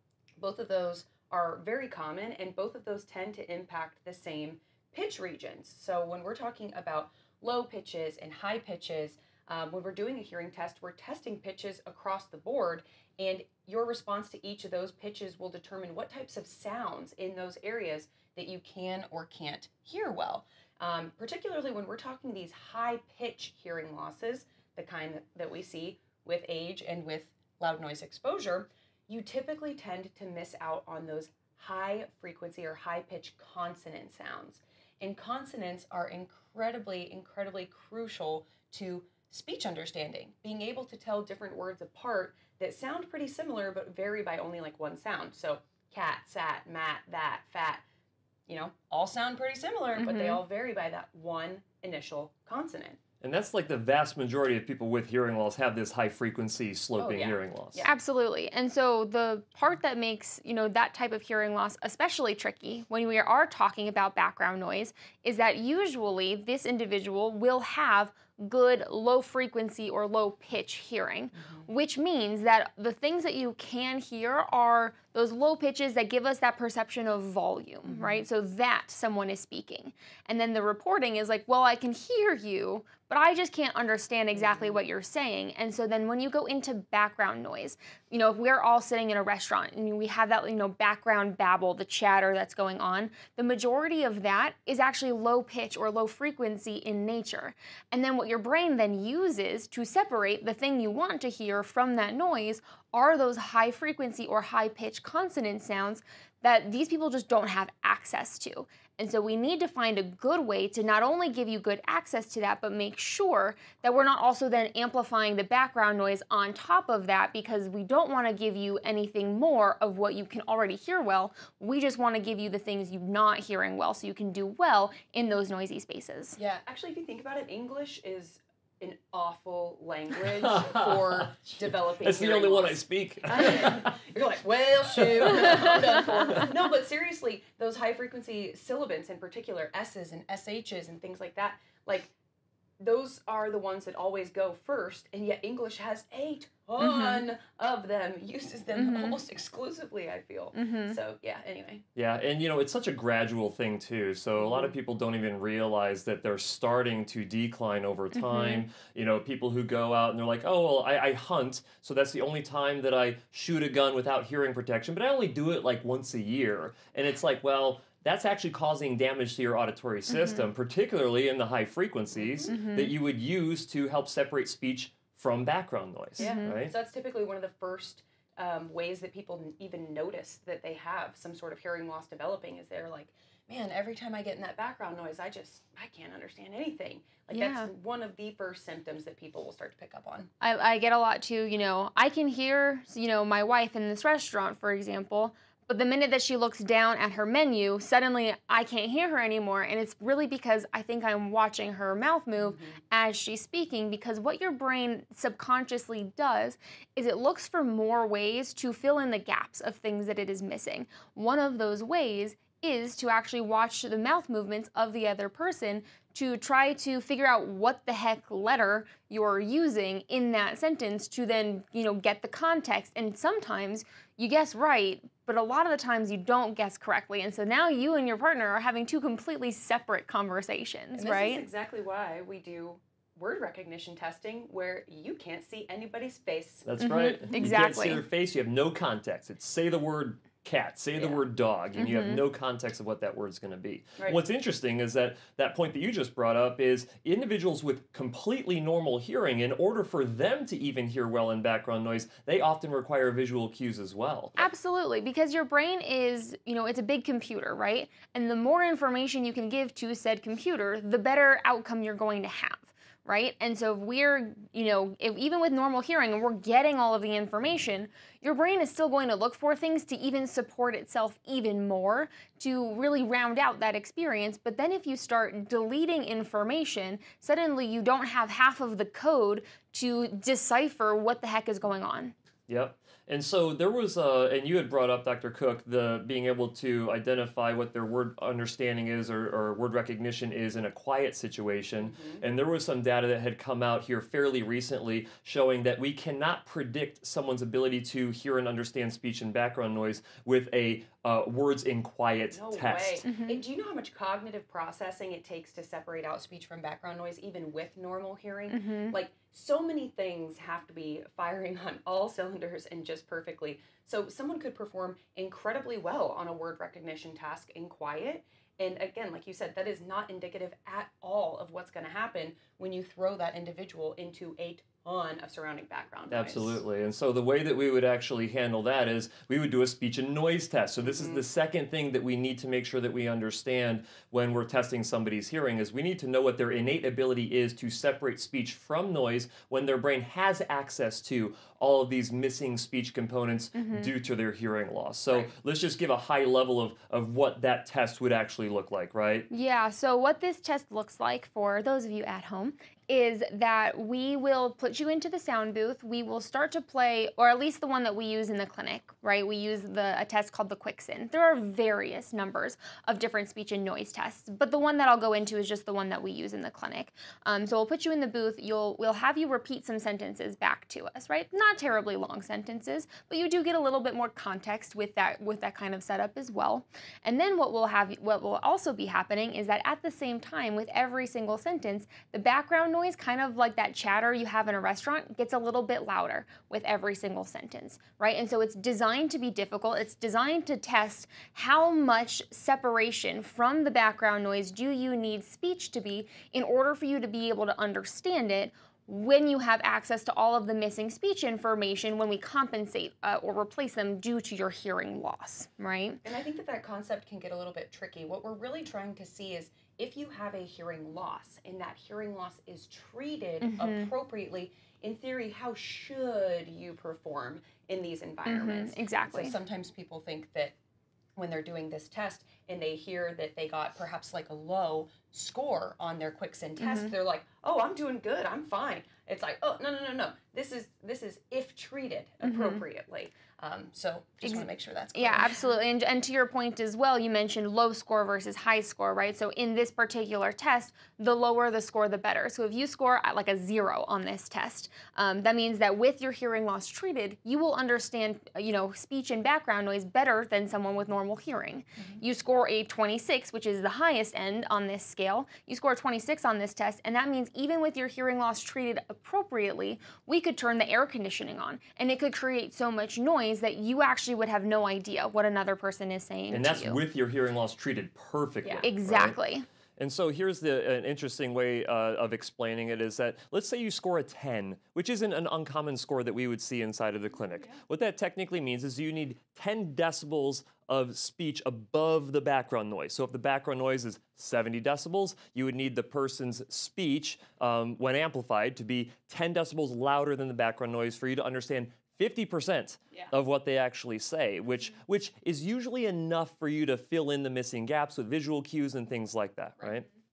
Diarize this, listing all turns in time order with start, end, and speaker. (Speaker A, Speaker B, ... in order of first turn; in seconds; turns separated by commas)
Speaker A: 0.4-47.8, Speaker A: 48.5-53.0, Speaker B: 50.0-50.4, Speaker C: 53.2-57.9, Speaker A: 57.0-57.9, Speaker B: 57.8-126.4, Speaker A: 71.3-71.7, Speaker A: 77.8-78.2, Speaker A: 84.3-84.8, Speaker A: 126.4-142.1, Speaker C: 130.3-133.9, Speaker C: 135.2-135.7, Speaker A: 142.8-151.8, Speaker B: 146.8-147.3, Speaker B: 148.7-149.2, Speaker B: 150.5-151.0, Speaker C: 151.9-176.7, Speaker A: 154.4-154.7, Speaker B: 158.1-158.6, Speaker B: 170.1-170.4, Speaker B: 172.5-172.9, Speaker A: 176.2-190.3, Speaker B: 176.2-176.6, Speaker B: 187.3-187.7, Speaker B: 190.4-231.4, Speaker A: 202.4-202.8, Speaker A: 230.9-236.7, Speaker C: 236.6-254.4, Speaker B: 236.8-238.0, Speaker A: 241.0-241.2, Speaker B: 241.8-242.2, Speaker B: 254.4-282.1, Speaker C: 282.5-303.1, Speaker A: 291.9-292.2, Speaker A: 302.3-326.6, Speaker B: 303.0-303.4, Speaker B: 308.5-309.0, Speaker C: 326.1-349.3, Speaker A: 330.8-331.2, Speaker B: 343.5-343.9, Speaker B: 349.3-406.0, Speaker A: 406.0-420.5, Speaker B: 413.4-413.9, Speaker B: 418.2-419.3, Speaker A: 421.1-435.5, Speaker B: 426.6-426.9, Speaker B: 432.2-432.6, Speaker B: 434.2-466.8, Speaker C: 466.3-469.2, Speaker B: 468.6-469.4, Speaker C: 469.8-499.9